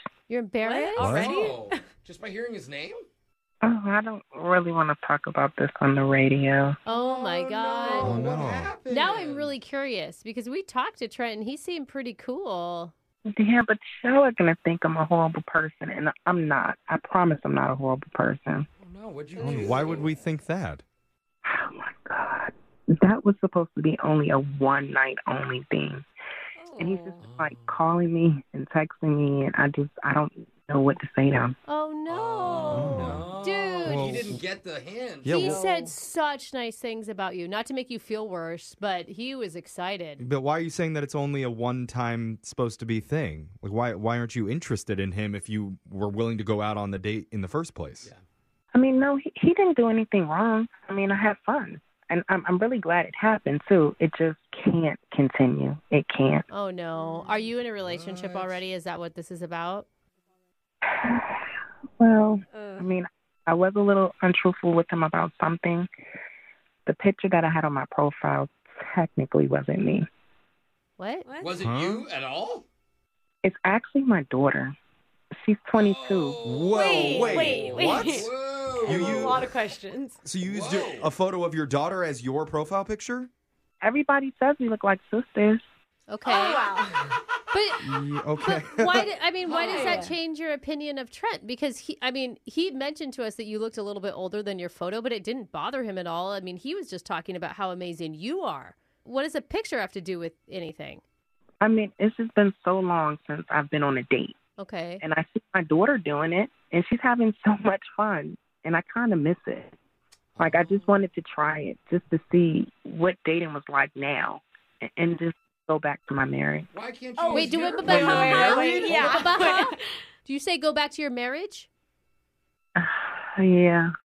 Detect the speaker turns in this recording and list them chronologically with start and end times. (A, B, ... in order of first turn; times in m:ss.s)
0:00.3-0:01.1 A
0:00.6-0:01.8 B
0:01.0-0:01.4 C
0:01.0-0:03.0 D
0:03.6-0:06.8 E
0:06.9-0:08.2 A
0:06.9-0:09.5 D
0:08.0-0:08.8 C
0:08.9-0:12.9 A
0:13.3-0:18.7 E
0:18.8-0:20.1 D
0:19.4-0:20.8 C
0:19.4-0:19.8 B
0:21.4-0:26.0 E
0:26.6-0:27.2 B
0:26.8-0:31.6 E
0:27.2-0:27.8 D
0:31.6-0:34.2 A
0:32.1-0:35.9 D
0:32.5-0:32.9 B
0:32.7-0:33.3 C
0:33.8-0:34.4 C
0:35.2-0:35.6 C
0:35.2-0:40.2 A
0:40.2-0:48.1 C
0:48.7-0:56.4 E
0:56.5-0:59.8 A
0:57.0-0:57.5 B
0:57.8-0:58.6 D
1:00.9-1:05.9 E
1:02.5-1:02.9 B
1:06.8-1:10.1 E
1:11.0-1:11.2 A
1:11.2-1:11.6 B
1:11.4-1:12.6 D
1:11.6-1:12.0 C
1:13.4-1:14.7 E
1:15.4-1:16.4 E
1:15.7-1:19.4 D
1:16.4-1:19.5 C
1:16.7-1:20.2 B
1:20.2-1:23.3 C
1:20.4-1:21.1 D
1:23.8-1:25.6 E
1:26.1-1:26.7 A
1:26.2-1:27.2 B
1:27.5-1:27.9 A
1:27.8-1:29.1 C
1:28.4-1:41.0 A
1:29.4-1:30.1 D
1:29.5-1:30.1 B
1:41.6-1:44.4 E
1:44.6-1:45.0 A
1:45.0-1:49.7 E
1:50.4-1:50.9 D
1:50.4-1:56.7 E
1:56.7-1:59.3 D
1:57.2-2:00.0 B
1:57.3-1:59.7 A
2:00.2-2:01.7 A
2:02.8-2:03.9 E